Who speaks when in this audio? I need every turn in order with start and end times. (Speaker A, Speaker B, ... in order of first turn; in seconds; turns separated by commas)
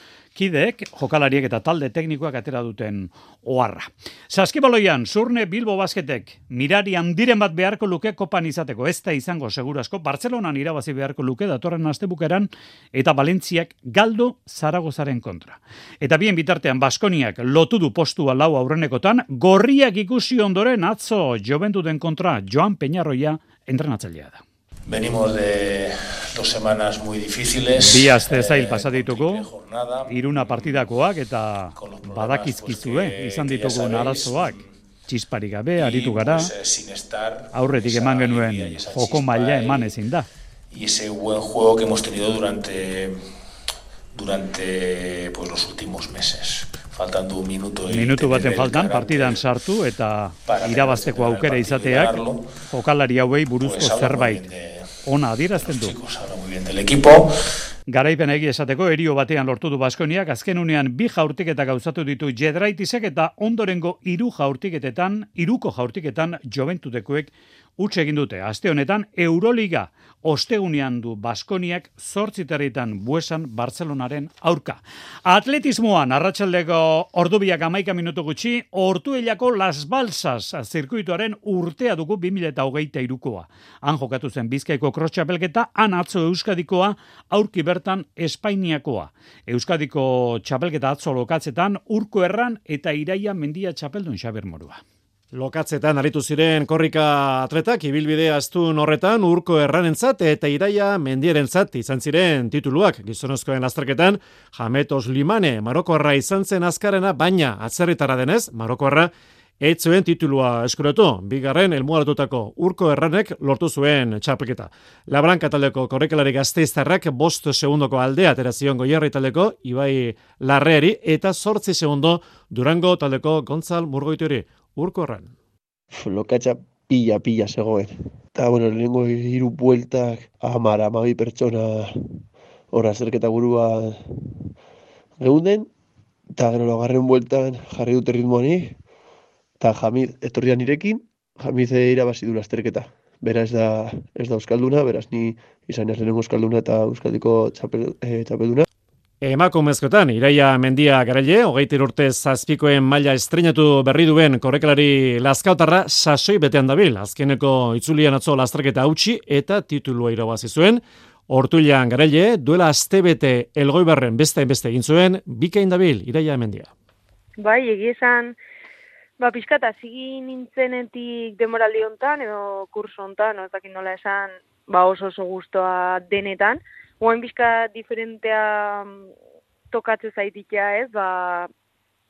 Speaker A: 0.3-24.4, Speaker B: 24.9-30.9, Speaker A: 27.8-29.5, Speaker A: 30.1-36.5, Speaker B: 31.8-34.6, Speaker B: 35.8-39.9, Speaker A: 37.5-40.3, Speaker B: 40.7-43.2, Speaker B: 44.1-49.4, Speaker A: 47.9-54.5, Speaker B: 50.5-52.4, Speaker B: 53.6-54.9, Speaker A: 55.0-56.0, Speaker B: 55.6-57.3, Speaker A: 57.9-94.8, Speaker C: 95.3-125.3, Speaker D: 125.9-134.5, Speaker D: 135.2-135.7, Speaker D: 136.4-138.8, Speaker D: 139.6-148.7, Speaker C: 149.2-166.7, Speaker E: 167.5-168.3, Speaker E: 169.2-178.3, Speaker E: 179.8-181.4